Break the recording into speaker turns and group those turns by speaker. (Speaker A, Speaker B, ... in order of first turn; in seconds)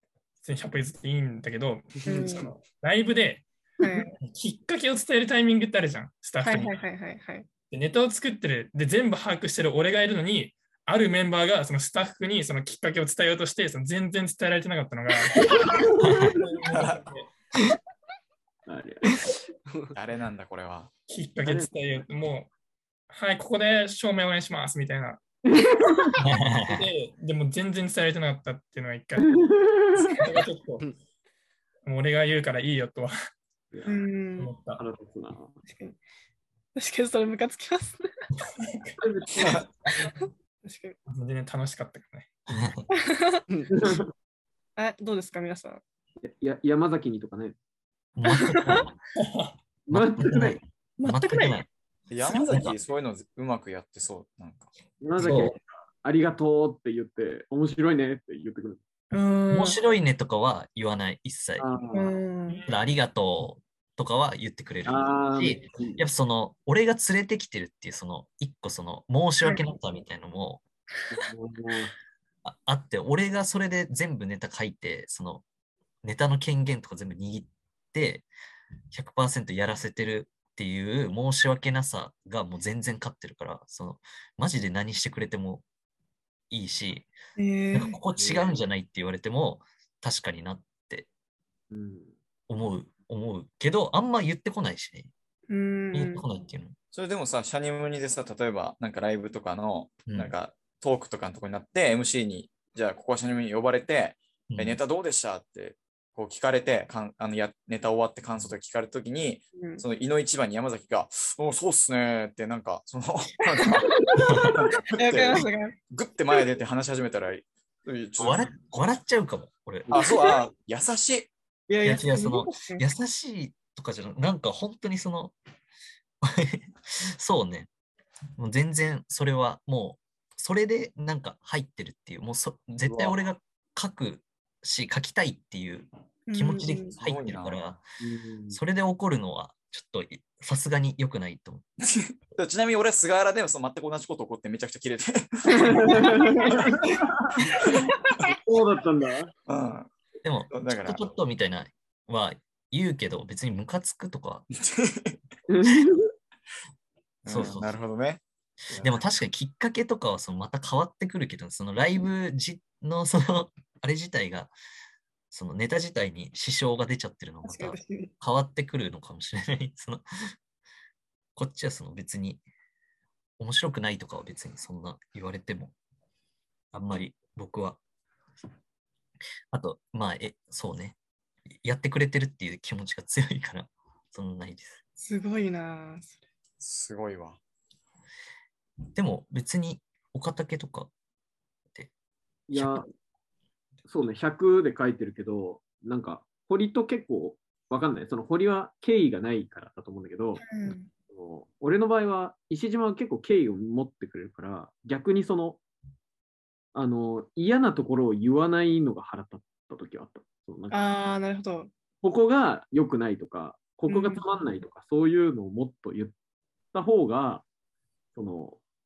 Speaker A: 0.4-6.8, 7.7-15.5, 16.2-17.3, 21.1-22.5, 23.1-25.2, 26.6-29.3, 30.0-30.9, 31.8-33.1, 34.4-34.8, 38.6-39.0, 41.1-42.6, 49.2-49.5
Speaker B: 2.0-2.5, 3.8-4.1, 6.4-7.5, 33.9-34.5, 35.7-36.0, 36.8-38.0, 40.6-41.0, 42.9-43.5, 44.8-45.8, 48.3-48.8, 51.0-51.6, 59.1-59.8, 61.9-62.6, 87.4-88.0, 95.5-96.2, 109.6-109.8, 113.6-114.3, 114.9-115.8, 121.7-122.8, 136.3-136.9, 145.9-146.5, 167.4-168.1, 185.0-186.2, 200.4-200.9, 210.7-211.7, 213.9-214.2
Speaker C: 15.3-16.1, 18.7-19.3, 21.4-21.7, 25.5-26.1, 29.2-30.2, 33.7-34.0, 34.8-35.6, 39.0-39.6, 43.7-44.1, 46.2-47.5, 49.9-50.6, 55.0-58.8, 61.6-62.2, 64.8-66.0, 71.1-71.9, 88.2-88.5, 91.7-92.1, 132.9-133.2, 138.0-138.6, 145.6-147.7, 148.3-149.3, 155.5-156.1, 192.5-192.9, 193.9-200.5, 201.1-205.6, 206.7-210.8, 212.0-216.1, 216.7-217.4, 218.1-218.6
Speaker D: 16.0-16.3, 26.2-26.9, 42.5-42.8, 48.2-48.9, 49.9-51.7, 52.3-52.7, 55.2-55.6, 59.5-61.7, 62.7-70.6, 72.4-75.4, 76.0-78.3, 78.9-85.6, 86.5-87.1, 87.7-91.1, 92.5-95.1, 95.9-96.8, 100.1-100.3, 104.5-104.8, 114.3-114.5, 118.2-120.1, 121.8-125.3, 126.2-127.7, 128.4-137.8, 138.5-141.7, 150.2-154.4, 157.3-157.8, 158.8-164.5, 165.3-170.0, 171.3-172.4, 173.4-175.7, 176.7-177.8, 179.5-181.0, 181.5-184.8, 188.9-190.9, 192.5-192.8
Speaker E: 16.7-17.0, 19.9-20.9, 52.1-54.7, 96.9-118.5, 119.9-121.3, 137.0-137.6, 141.8-147.7, 149.5-149.9, 150.5-151.0, 154.5-155.2, 157.2-159.0, 186.6-187.4